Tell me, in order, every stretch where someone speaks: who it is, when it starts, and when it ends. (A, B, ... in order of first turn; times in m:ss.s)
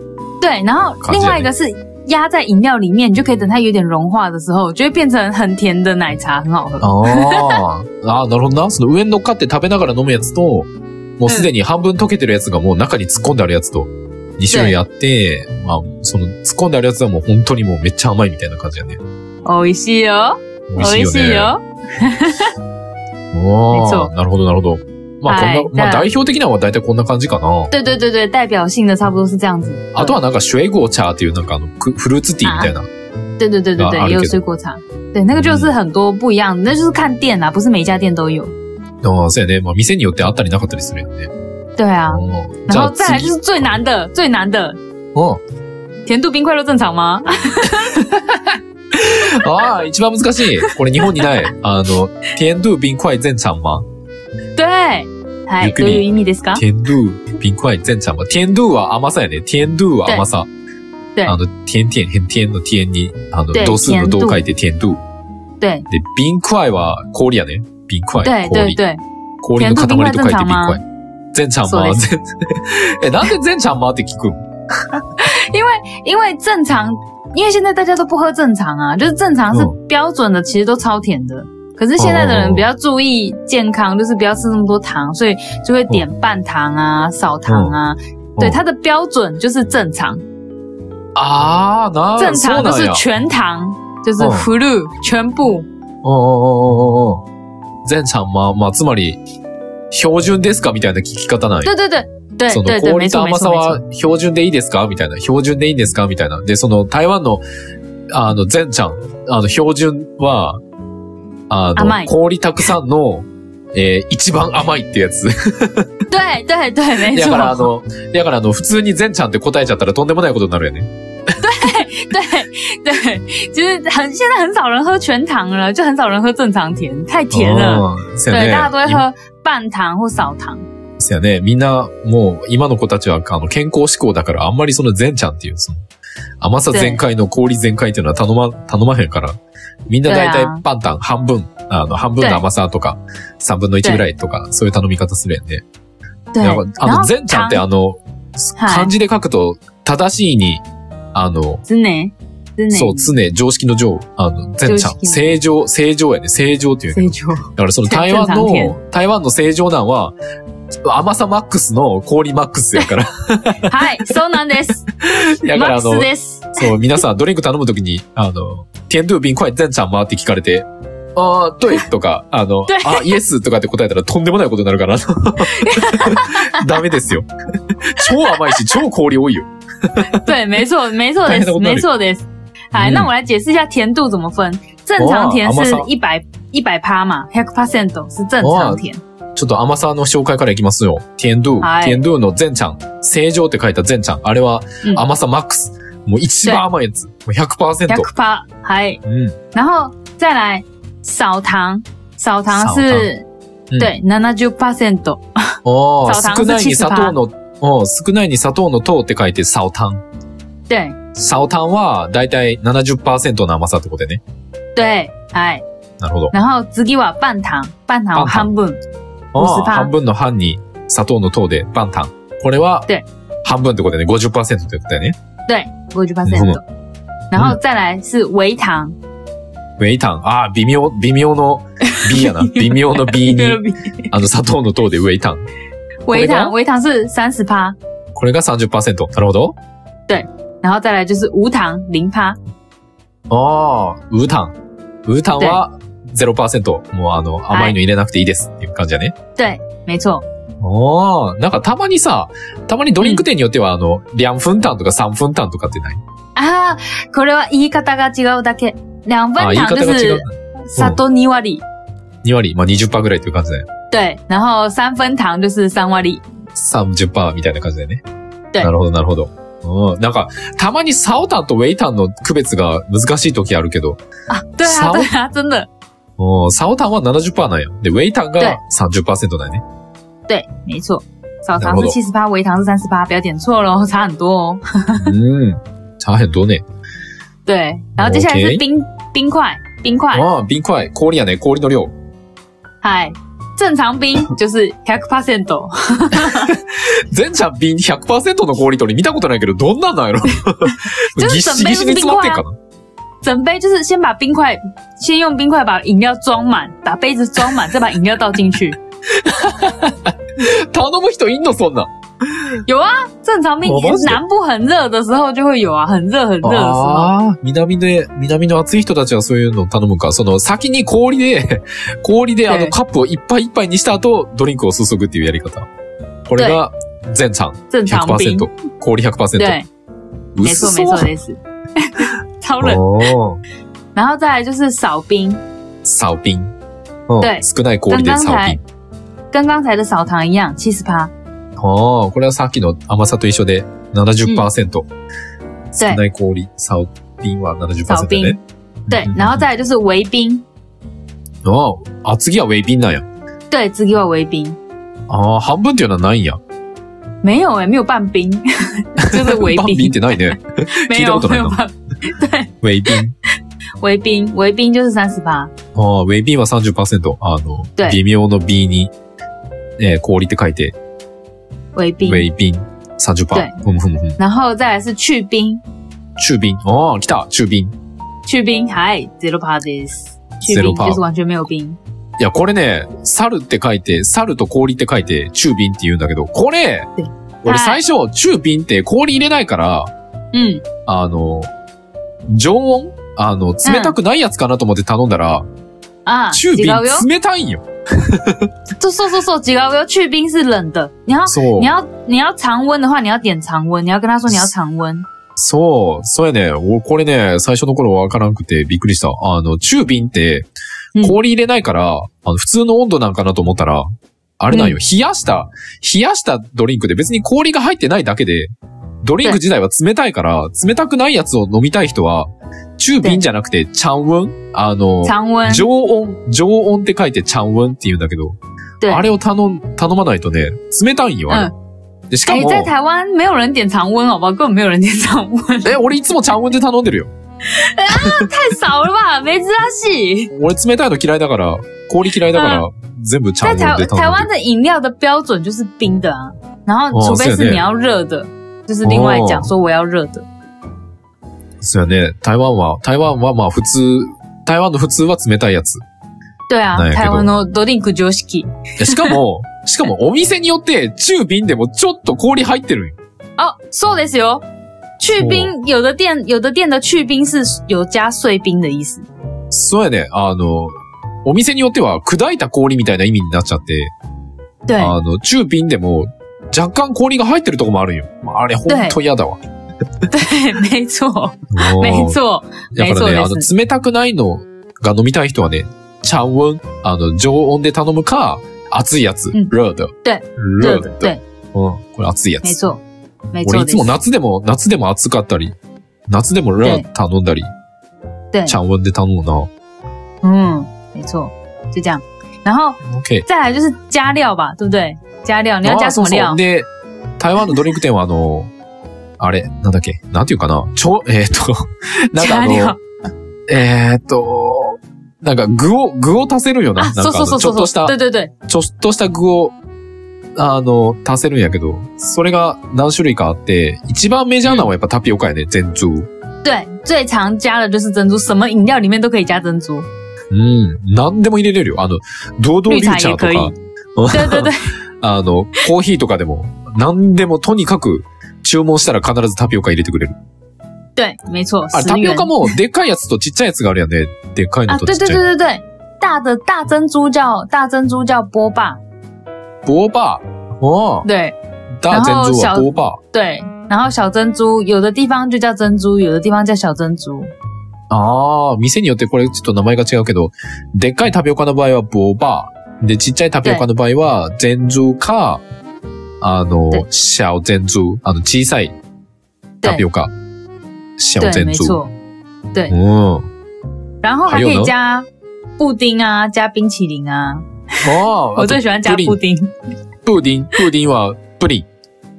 0:00.4-0:07.6 A
0:01.0-0:01.5 B
0:06.8-0:19.0 B
0:14.5-0:14.8 A
0:19.4-0:22.6 A
0:20.7-0:21.6 B
0:23.3-0:27.7 B
0:23.7-0:24.1 A
0:25.3-0:26.1 A
0:27.7-0:30.2 A
0:30.0-0:32.9 B
0:32.4-0:32.7 A
0:33.4-0:38.5 A
0:33.8-0:34.4 B
0:35.3-0:35.7 B
0:39.0-0:41.3 B
0:41.8-0:44.8 A
0:42.1-0:43.7 B
0:45.2-0:45.4 B
0:46.0-0:48.2 A
0:48.9-0:53.8 B
0:50.6-0:51.3 A
0:54.6-0:56.6 A
0:55.6-1:00.5 B
1:01.2-1:05.0 B
1:03.5-1:04.4 A
1:05.6-1:05.9 A
1:05.9-1:08.8 B
1:08.2-1:09.0 A
1:09.4-1:14.4 B
1:09.6-1:10.8 A
1:11.6-1:12.0 A
1:15.2-1:30.2 A
1:22.0-1:22.6 B
1:27.5-1:27.8 B
1:31.2-1:33.0 B
1:32.2-1:35.7 A
1:34.2-1:34.5 B
1:36.0-1:37.2 B
1:37.8-1:39.2 B
1:39.9-1:41.7 B
1:41.6-1:43.8 A
1:42.5-1:47.4 B
1:48.1-1:50.6 B
1:51.5-1:55.9 B
1:51.8-1:52.1 A
1:56.1-1:57.7 A
1:57.1-2:00.9 B
2:01.4-2:10.6 A
2:07.3-2:09.0 B
2:11.0-2:15.8 B
2:16.4-2:19.4 B
2:16.7-2:17.0 A
2:19.9-2:25.6 B
2:20.1-2:20.6 A
2:26.3-2:27.6 A
2:26.4-2:30.6 B
2:28.6-2:28.9 A
2:31.1-2:31.6 B
2:31.7-2:33.1 A
2:32.7-2:40.2 B
2:34.6-2:35.4 A
2:36.9-2:38.8 A
2:40.8-2:43.8 B
2:43.6-2:44.8 A
2:45.0-3:00.3 B
2:45.5-2:46.7 A
2:52.7-2:53.2 A
2:55.5-2:56.6 A
2:58.0-2:58.8 A
3:00.1-3:09.0 A
3:01.2-3:01.9 B
3:02.8-3:03.1 B
3:05.0-3:05.9 B
3:08.4-3:08.8 B
3:09.4-3:18.1 B
3:11.6-3:12.0 A
3:17.9-3:19.0 A
3:19.0-3:19.4 B
3:19.5-3:23.3 A
3:22.5-3:23.1 B
3:23.8-3:27.2 A
3:25.6-3:30.0 B
3:30.7-3:31.0 A
3:31.2-3:34.2 B
3:34.8-3:35.6 A
3:36.0-3:36.4 B
3:36.3-3:38.8 A
3:38.2-3:38.5 B
3:39.3-3:42.9 B
3:39.4-3:39.9 A
3:43.4-3:45.2 B
3:45.5-3:46.6 A
3:46.3-3:46.6 B
3:47.3-3:49.0 A
3:49.8-3:55.4 B
3:51.9-3:54.1 A
3:56.1-3:57.8 A
3:56.1-3:56.5 B
3:58.2-3:59.6 B
4:00.1-4:02.4 A
4:03.3-4:04.5 B
4:05.1-4:09.2 B
4:07.5-4:07.8 A
4:09.4-4:10.2 A
4:10.6-4:16.0 B
4:16.4-4:21.6 A
4:19.4-4:21.0 B
4:22.2-4:23.7 B
4:23.9-4:26.2 A
4:26.6-4:28.0 B
4:28.6-4:34.0 B
4:34.3-4:35.7 A
4:34.6-4:35.1 B
4:36.2-4:39.6 B
4:40.3-4:45.1 A
4:41.6-4:42.0 B
4:45.0-4:46.6 B
4:47.5-4:50.3 A
4:48.0-4:48.6 B
4:50.1-4:51.9 B
4:52.8-4:56.5 A
4:56.2-5:02.5 B
5:01.2-5:02.4 A
5:03.2-5:08.8 A
5:09.1-5:12.5 B
5:12.6-5:17.1 A
5:13.6-5:14.2 B
5:16.4-5:25.7 B
5:22.5-5:22.8 A
5:26.3-5:29.6 B
5:27.7-5:28.5 A
5:29.4-5:29.7 A
5:30.4-5:31.1 B
5:30.4-5:33.1 A
5:32.6-5:33.4 B
5:34.0-5:35.4 A
5:35.8-5:36.5 B
5:37.1-5:38.6 B
5:37.2-5:38.6 A
5:39.3-5:41.1 A
5:41.6-5:44.9 B
5:45.7-5:49.4 B
5:47.9-5:48.4 A
5:48.9-5:50.4 A
5:51.4-5:53.0 B
5:53.5-5:54.6 A
5:55.1-5:56.4 B
5:57.2-6:03.0 A
5:59.0-6:01.6 B
6:02.6-6:03.2 B
6:03.8-6:05.5 A
6:05.8-6:08.9 B
6:09.8-6:10.8 B
6:11.8-6:12.3 A
6:12.0-6:14.2 B
6:14.2-6:15.6 A
6:16.2-6:17.7 B
6:18.2-6:21.8 A
6:20.5-6:21.0 B
6:22.2-6:26.9 B
6:27.0-6:27.8 A
6:27.4-6:29.9 B
6:30.3-6:30.6 A
6:30.8-6:31.5 B
6:32.3-6:35.4 B
6:33.6-6:34.0 A
6:36.0-6:37.1 A
6:36.3-6:38.5 B
6:38.8-6:45.1 A
6:41.3-6:41.7 B
6:45.4-6:50.5 B
6:51.0-6:53.9 B
6:54.4-6:58.5 B
6:54.5-6:54.8 A
6:59.0-7:11.5 B
7:05.0-7:05.7 A
7:08.8-7:09.1 A
7:12.1-7:12.7 B
7:12.3-7:15.9 A
7:15.6-7:17.1 B
7:17.4-7:20.3 A
7:17.9-7:18.3 B
7:20.3-7:24.3 B
7:22.3-7:22.6 A
7:23.4-7:30.3 A
7:26.9-7:27.6 B
7:28.8-7:29.5 B
7:31.6-7:35.8 B
7:36.5-7:39.2 A
7:36.7-7:37.3 B
7:38.8-7:43.0 B
7:43.4-7:44.4 A
7:45.0-7:49.1 A
7:45.1-7:45.5 B
7:49.5-7:53.9 B
7:54.7-7:55.0 A
7:54.8-7:59.4 B
7:58.7-7:59.0 A
8:00.1-8:03.5 A
8:01.5-8:02.2 B
8:02.7-8:12.6 B
8:10.0-8:11.2 A
8:12.4-8:12.8 A
8:13.3-8:13.9 A
8:13.4-8:15.6 B
8:16.1-8:17.5 B
8:18.3-8:18.6 A
8:18.5-8:19.5 B
8:20.2-8:26.4 A
8:22.8-8:23.3 B
8:25.6-8:26.7 B
8:27.2-8:28.5 B
8:29.2-8:32.8 B
8:32.2-8:32.8 A
8:33.5-8:38.0 B
8:36.8-8:38.3 A
8:38.5-8:39.6 B
8:40.4-8:46.1 B
8:46.4-8:49.9 A
8:50.3-9:00.2 B
8:52.7-8:53.5 A
8:54.1-8:54.7 A
9:01.0-9:02.5 A
9:01.7-9:05.2 B
9:04.7-9:08.8 A
9:09.6-9:11.1 B
9:11.0-9:11.4 A
9:11.8-9:13.0 B
9:11.9-9:17.3 A
9:17.9-9:25.4 B
9:26.2-9:28.7 B
9:29.6-9:30.1 B
9:31.0-9:31.8 B
9:31.2-9:31.9 A
9:32.7-9:33.3 B
9:34.0-9:39.5 A
9:34.3-9:34.7 B
9:37.8-9:39.2 B
9:40.0-9:41.7 B